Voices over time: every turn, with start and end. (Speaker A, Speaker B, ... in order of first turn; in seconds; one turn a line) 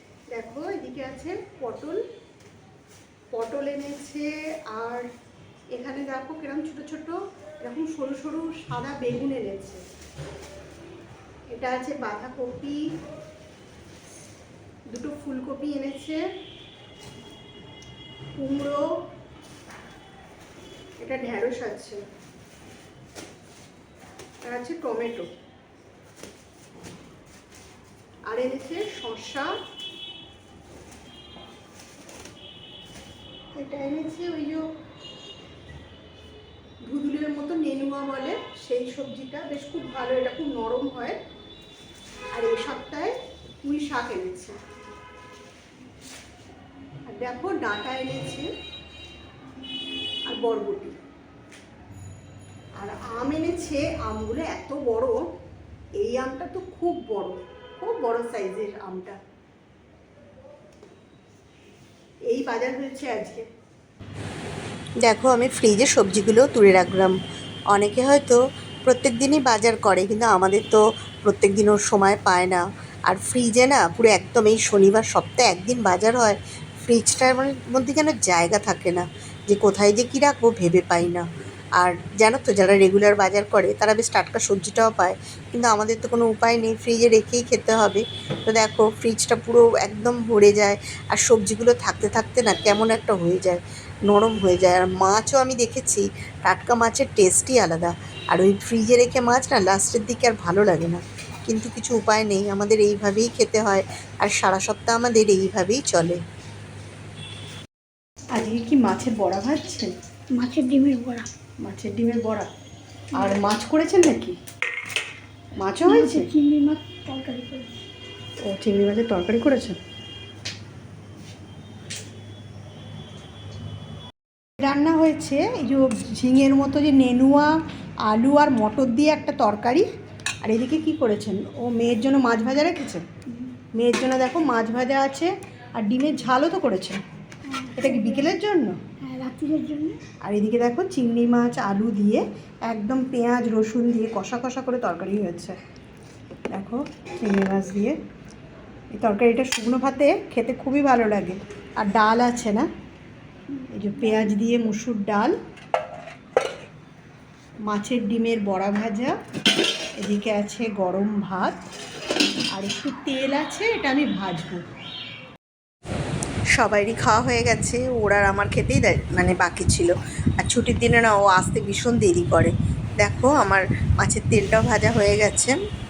Speaker A: 0.3-2.0
Speaker A: 3.3-5.1
Speaker A: 5.7-9.8
Speaker A: 11.5-12.8
Speaker A: 14.9-16.2
Speaker A: 18.4-18.9
Speaker A: 21.0-22.0
Speaker A: 24.4-25.3
Speaker A: 28.3-29.5
Speaker A: 33.6-34.7
Speaker A: 36.9-41.2
Speaker A: 42.3-43.1
Speaker A: 43.6-44.6
Speaker A: 47.1-48.5
Speaker A: 50.3-51.0
Speaker A: 52.8-55.2
Speaker A: 56.0-59.2
Speaker A: 62.3-63.5
Speaker B: 65.0-67.2
Speaker B: 67.7-81.2
Speaker B: 81.8-106.2
Speaker A: 108.3-110.0
Speaker C: 110.3-111.3
Speaker A: 111.6-112.5
Speaker A: 113.2-114.4
Speaker A: 115.6-116.3
Speaker C: 115.9-117.8
Speaker A: 118.5-119.8
Speaker A: 124.6-127.5
Speaker A: 128.1-129.9
Speaker A: 130.4-133.0
Speaker C: 133.3-133.6
Speaker A: 133.7-137.0
Speaker C: 137.4-138.3
Speaker A: 137.8-138.8
Speaker C: 139.0-140.0
Speaker A: 140.2-145.6
Speaker A: 146.5-148.0
Speaker A: 148.9-152.7
Speaker C: 153.5-154.3
Speaker A: 153.7-155.3
Speaker A: 157.7-159.2
Speaker A: 160.0-161.6
Speaker A: 162.5-164.6
Speaker B: 166.5-175.6